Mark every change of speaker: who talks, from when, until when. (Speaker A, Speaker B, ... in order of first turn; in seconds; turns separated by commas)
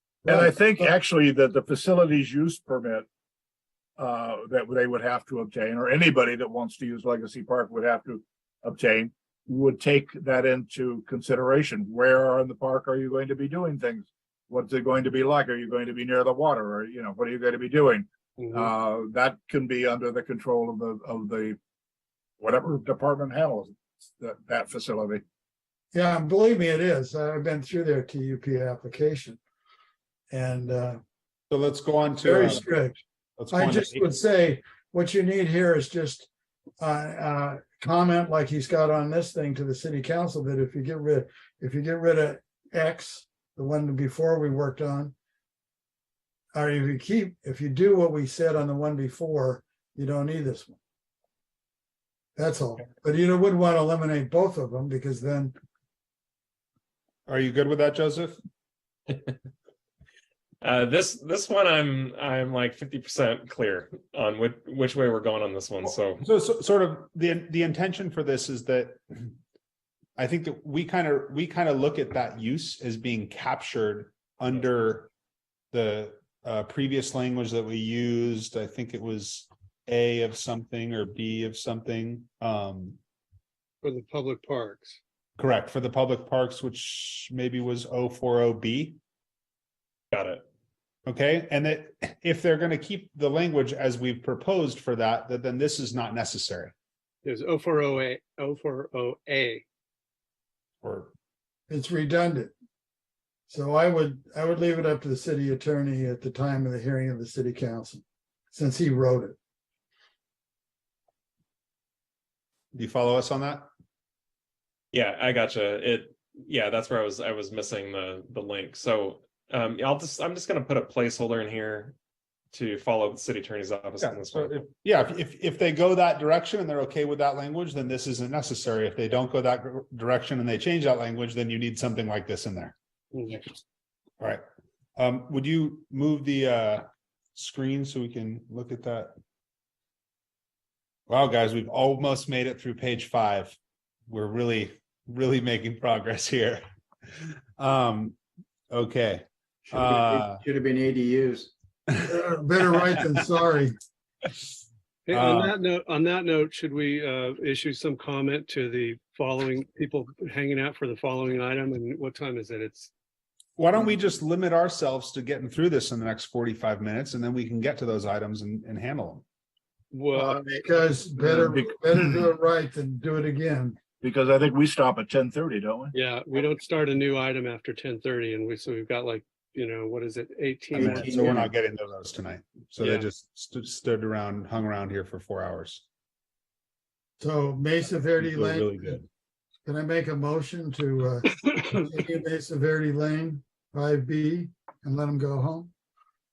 Speaker A: 0.2-0.9, Speaker B: 0.2-3.0, Speaker B: 4.0-21.6, Speaker B: 22.4-25.2, Speaker A: 25.9-29.4, Speaker A: 30.3-31.0, Speaker C: 31.5-32.6, Speaker A: 32.2-36.3, Speaker C: 33.4-34.0, Speaker A: 36.8-45.1, Speaker A: 46.5-50.8, Speaker A: 52.4-55.5, Speaker C: 57.3-58.4, Speaker D: 60.6-66.2, Speaker C: 66.2-69.3, Speaker C: 70.2-75.1, Speaker C: 75.7-83.0, Speaker E: 83.8-85.0, Speaker C: 85.4-89.0, Speaker D: 90.1-90.4, Speaker C: 91.0-96.7, Speaker E: 97.2-99.6, Speaker C: 100.8-101.1, Speaker A: 101.7-102.5, Speaker A: 103.5-109.3, Speaker C: 112.7-113.7, Speaker D: 114.9-121.9, Speaker D: 122.5-124.6, Speaker C: 124.0-132.7, Speaker E: 133.1-133.6, Speaker C: 135.0-139.1, Speaker C: 141.1-143.6, Speaker C: 144.1-146.6, Speaker C: 147.1-148.2, Speaker C: 148.7-150.4, Speaker F: 149.7-151.5, Speaker A: 152.0-153.7, Speaker E: 155.1-162.9, Speaker C: 155.1-155.5, Speaker C: 163.6-169.2, Speaker E: 169.9-170.4, Speaker A: 170.2-173.8, Speaker B: 170.3-170.6, Speaker B: 171.2-172.1, Speaker B: 174.0-175.9, Speaker E: 175.9-181.2, Speaker F: 180.7-181.5, Speaker C: 180.8-185.8, Speaker E: 182.8-183.1, Speaker A: 187.2-188.9, Speaker C: 188.2-189.1, Speaker A: 189.7-195.7